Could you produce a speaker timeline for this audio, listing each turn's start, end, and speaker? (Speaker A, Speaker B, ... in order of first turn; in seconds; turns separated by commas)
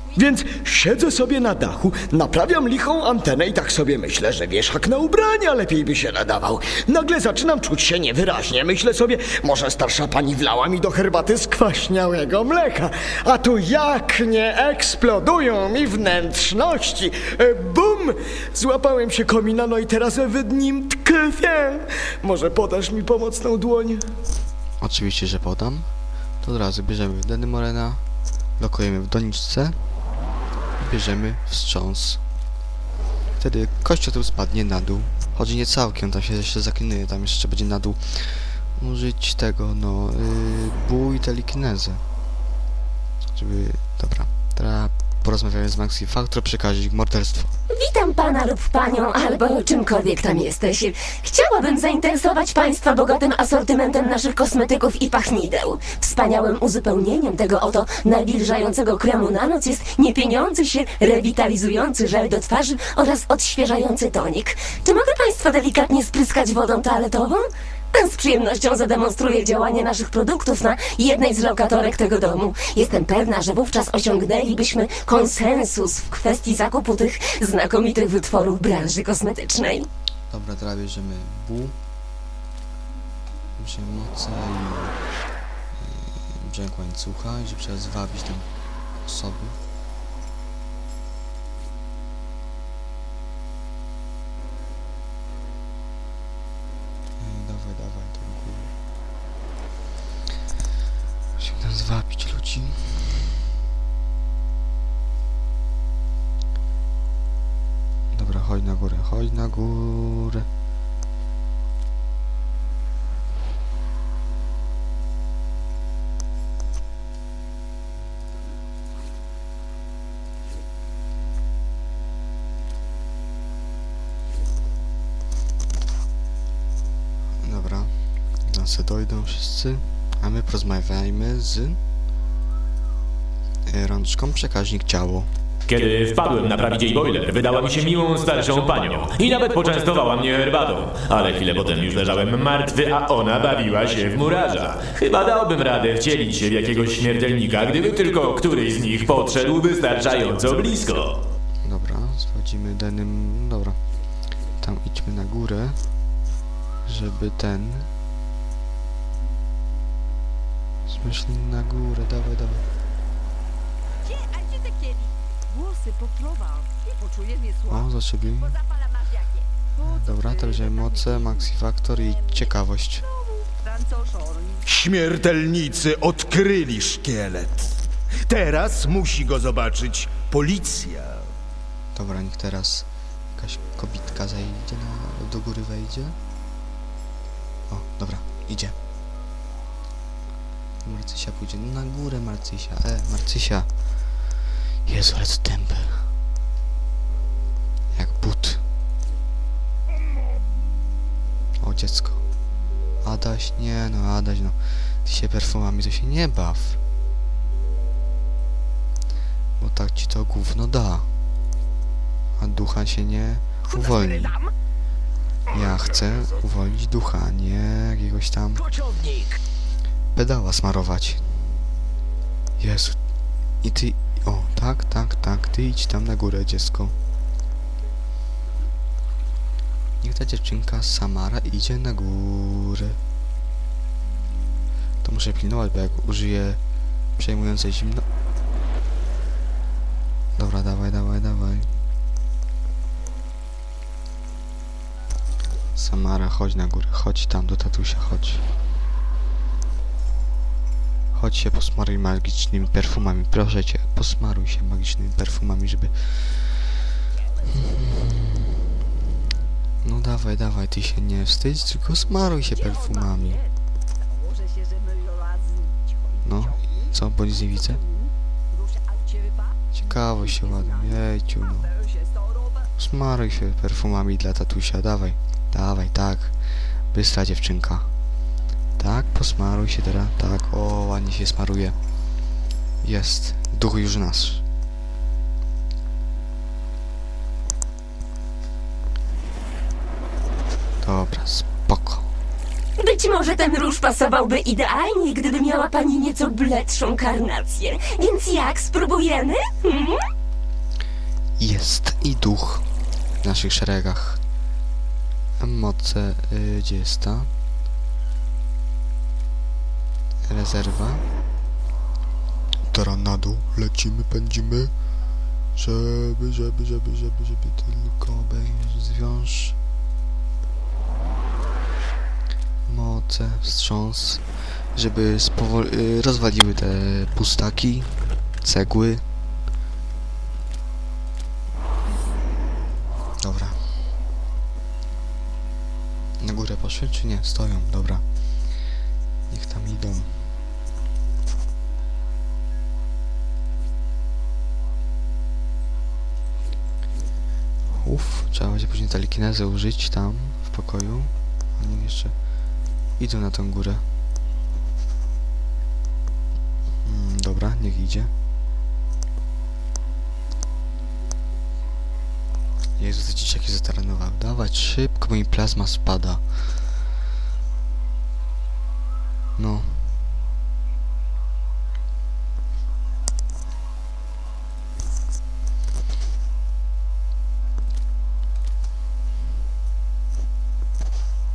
Speaker A: 0.1-24.1, Speaker B: 24.8-25.9, Speaker B: 26.4-28.0, Speaker B: 28.6-29.8, Speaker B: 30.8-32.2, Speaker B: 33.4-42.0, Speaker B: 43.3-47.5, Speaker C: 47.7-79.9, Speaker B: 80.3-81.8, Speaker B: 83.6-85.0, Speaker B: 85.8-88.5, Speaker B: 89.0-89.6, Speaker B: 97.2-98.7, Speaker B: 101.4-103.3, Speaker B: 108.1-110.5, Speaker B: 127.4-131.8, Speaker B: 133.7-135.3, Speaker D: 135.7-151.2, Speaker B: 151.6-153.8, Speaker B: 154.6-155.8, Speaker B: 156.8-157.9, Speaker B: 160.9-162.6, Speaker E: 164.1-167.6, Speaker B: 167.7-168.6, Speaker E: 168.6-169.1, Speaker B: 169.8-173.0, Speaker E: 173.5-174.6, Speaker F: 174.6-181.3, Speaker B: 181.9-186.2, Speaker B: 187.7-188.8, Speaker B: 190.8-193.7, Speaker B: 194.8-196.1, Speaker B: 197.9-198.6, Speaker B: 201.6-202.2, Speaker B: 203.0-206.8, Speaker B: 209.6-211.1, Speaker B: 212.4-214.3, Speaker B: 215.5-218.7, Speaker B: 220.1-221.5, Speaker B: 222.6-223.0, Speaker B: 223.6-226.9, Speaker B: 230.0-233.0, Speaker B: 235.0-236.6, Speaker B: 237.2-238.0, Speaker B: 240.4-241.7, Speaker B: 245.7-248.4, Speaker B: 251.1-256.7, Speaker B: 257.5-258.5, Speaker B: 259.8-263.4, Speaker E: 264.3-265.7, Speaker B: 266.2-267.8, Speaker B: 269.7-271.7, Speaker B: 272.8-276.4, Speaker B: 276.9-277.9, Speaker B: 278.8-281.8, Speaker B: 282.8-284.4, Speaker B: 290.8-292.1, Speaker C: 292.8-300.0, Speaker B: 301.4-302.6, Speaker B: 303.2-304.2, Speaker B: 305.4-307.3, Speaker B: 310.2-311.0, Speaker B: 312.7-314.7, Speaker B: 315.6-319.6, Speaker B: 322.7-329.0, Speaker B: 333.2-333.6, Speaker B: 336.2-338.0, Speaker B: 339.3-340.3, Speaker B: 347.7-352.1, Speaker B: 353.0-353.8, Speaker B: 356.8-358.1, Speaker B: 362.8-366.3, Speaker B: 369.4-370.0